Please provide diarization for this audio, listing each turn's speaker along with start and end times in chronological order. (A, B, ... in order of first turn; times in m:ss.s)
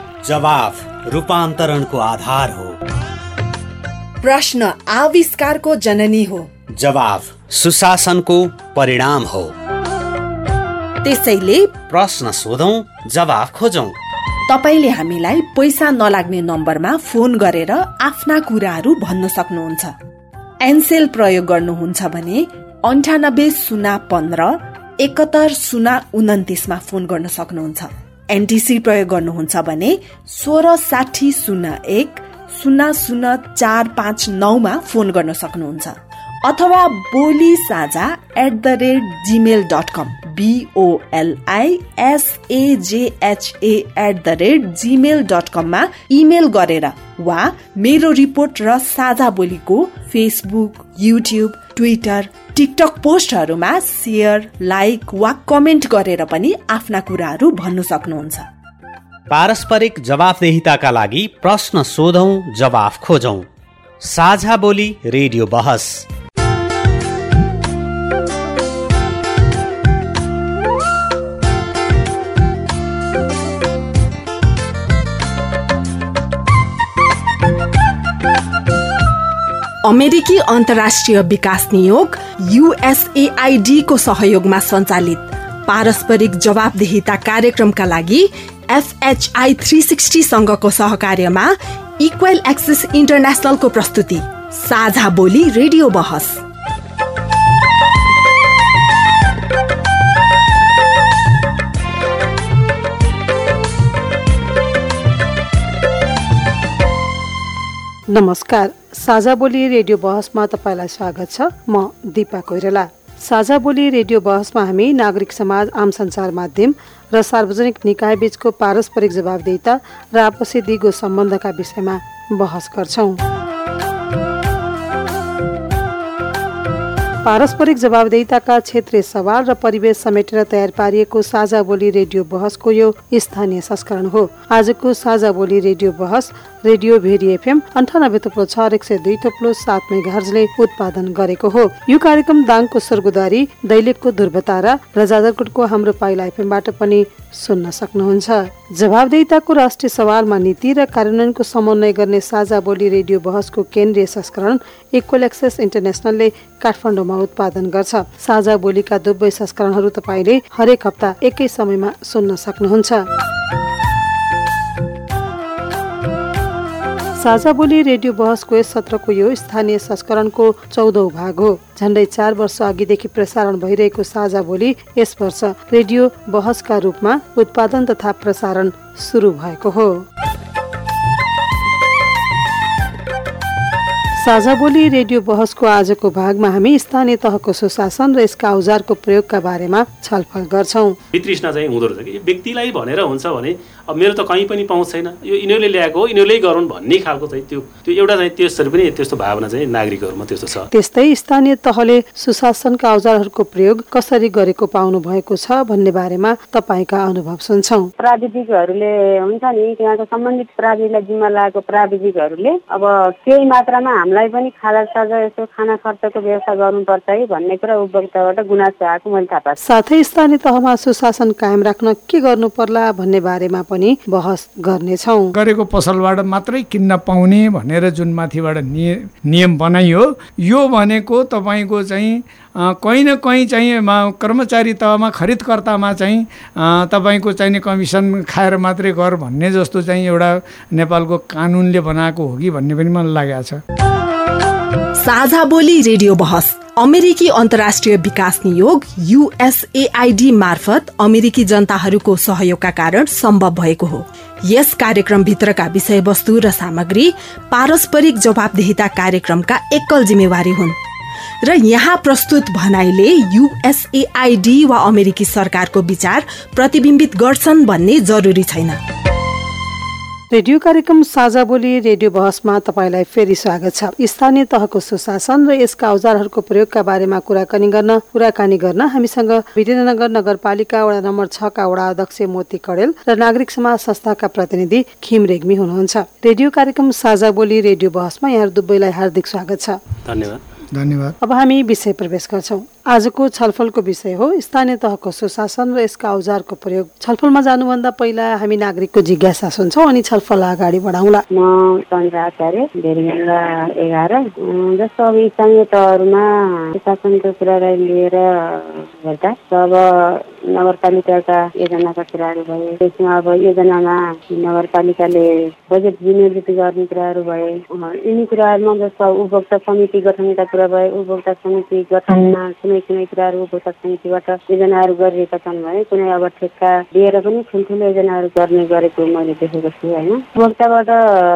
0:00.2-0:02.8 A
0:04.2-0:06.5 B
0:06.7-0:09.5 A
0:11.0-0:11.8 B
0:11.8-0:14.0 A
0:14.5-0:20.0 B
0:20.6-0:58.5 B
0:59.3-1:03.5 A
1:04.0-1:06.1 A
1:19.8-1:36.4 B
1:48.1-2:03.2 C
2:07.2-2:43.0 C
2:47.2-3:00.0 C
3:04.2-3:11.0 C
3:11.1-3:20.7 D
3:20.7-3:27.9 C
3:28.0-3:39.6 E
3:39.6-3:45.3 C
3:45.3-4:03.6 F
4:05.0-4:20.8 B
4:21.4-4:28.8 B
4:30.3-4:49.8 C
4:50.0-4:50.4 D
4:50.7-4:51.2 F
4:51.2-5:01.2 C
5:01.3-5:31.0 E